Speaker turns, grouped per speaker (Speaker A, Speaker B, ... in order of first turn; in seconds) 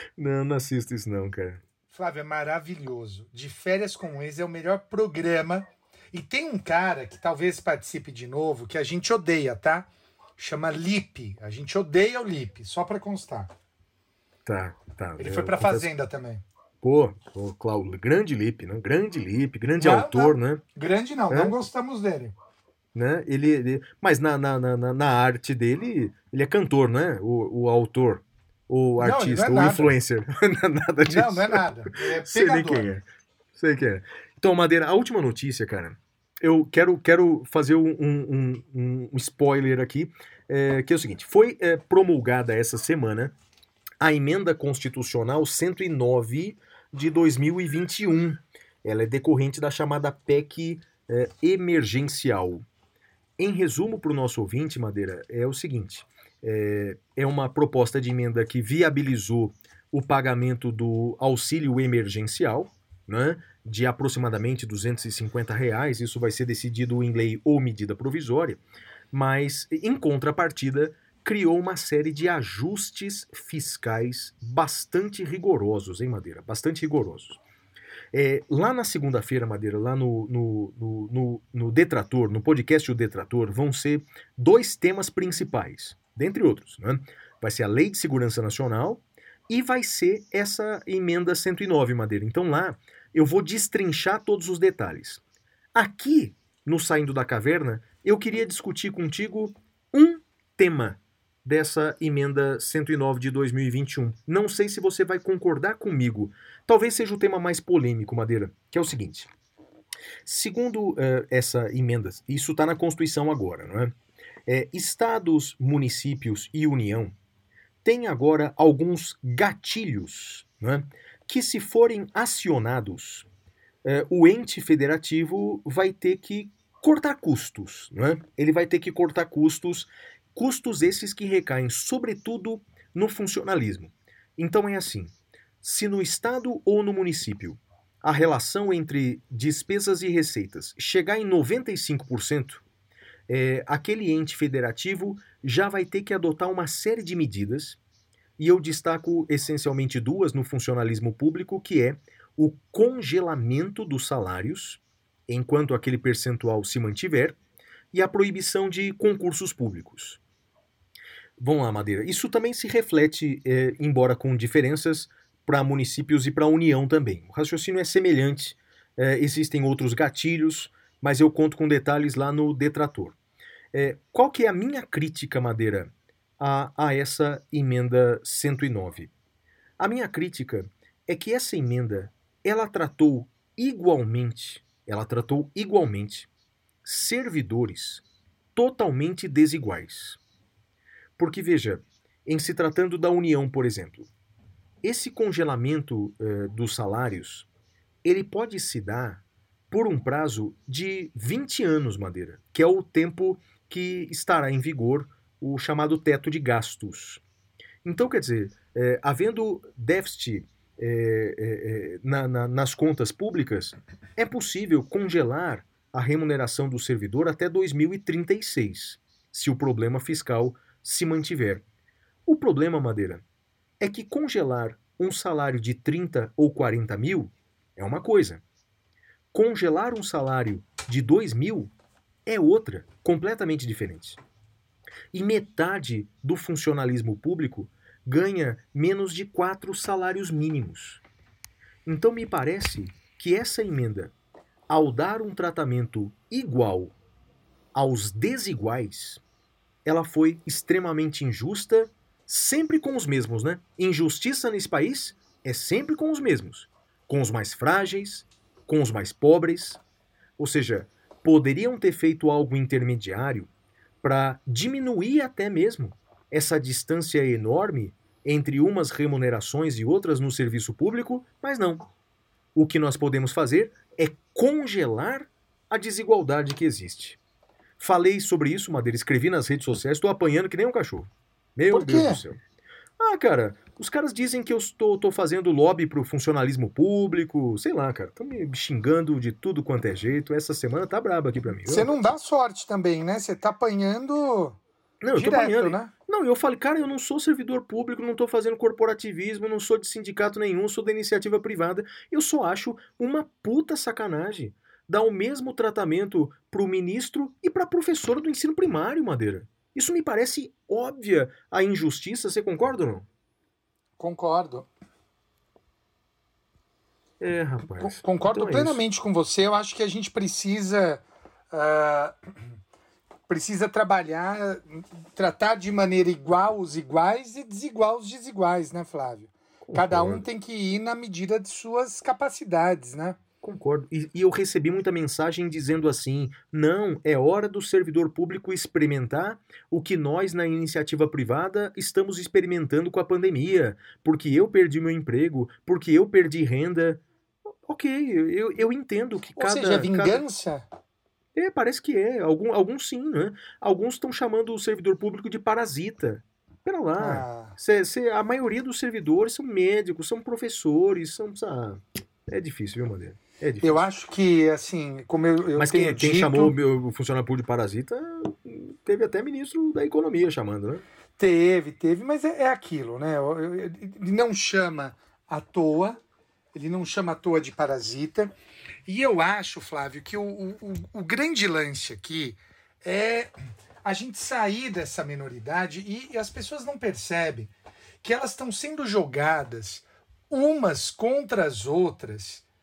Speaker A: 0.2-1.6, 14.5-15.9, 16.8-20.6, 21.3-21.6, 22.9-33.0, 33.6-43.3, 44.0-52.6, 53.4-68.6, 69.1-77.4, 78.1-95.2, 95.8-109.3, 110.2-114.0, 114.5-117.2, 117.8-123.3, 123.8-142.6, 143.3-147.8, 148.4-157.4, 157.9-160.2, 161.4-173.2, 173.7-179.1, 179.8-186.3, 186.8-188.0, 188.6-190.2, 191.2-194.1, 194.8-197.5, 198.0-207.2, 207.8-221.6, 222.3-223.2, 223.8-228.4, 229.3-231.7, 232.3-234.2, 235.1-241.0, 241.9-244.1, 244.7-246.9, 247.8-249.2, 249.8-259.8, 260.4-263.5, 264.0-271.9, 272.6-277.2, 277.8-282.4, 283.0-292.0, 295.0-313.1, 317.2-318.8, 329.7-330.2, 333.4-347.0, 347.7-350.2, 351.4-363.9, 365.6-370.8
Speaker B: 1.9-13.5, 15.2-16.4, 19.8-22.3, 29.0-29.9, 31.1-32.9, 281.7-282.2, 291.6-294.6, 295.1-295.9, 314.0-314.7, 317.7-322.2, 323.3-333.2, 349.4-350.7, 357.0-357.6, 363.6-366.6, 371.2-376.0, 376.5-378.3, 378.9-383.3, 383.8-387.5, 388.0-392.4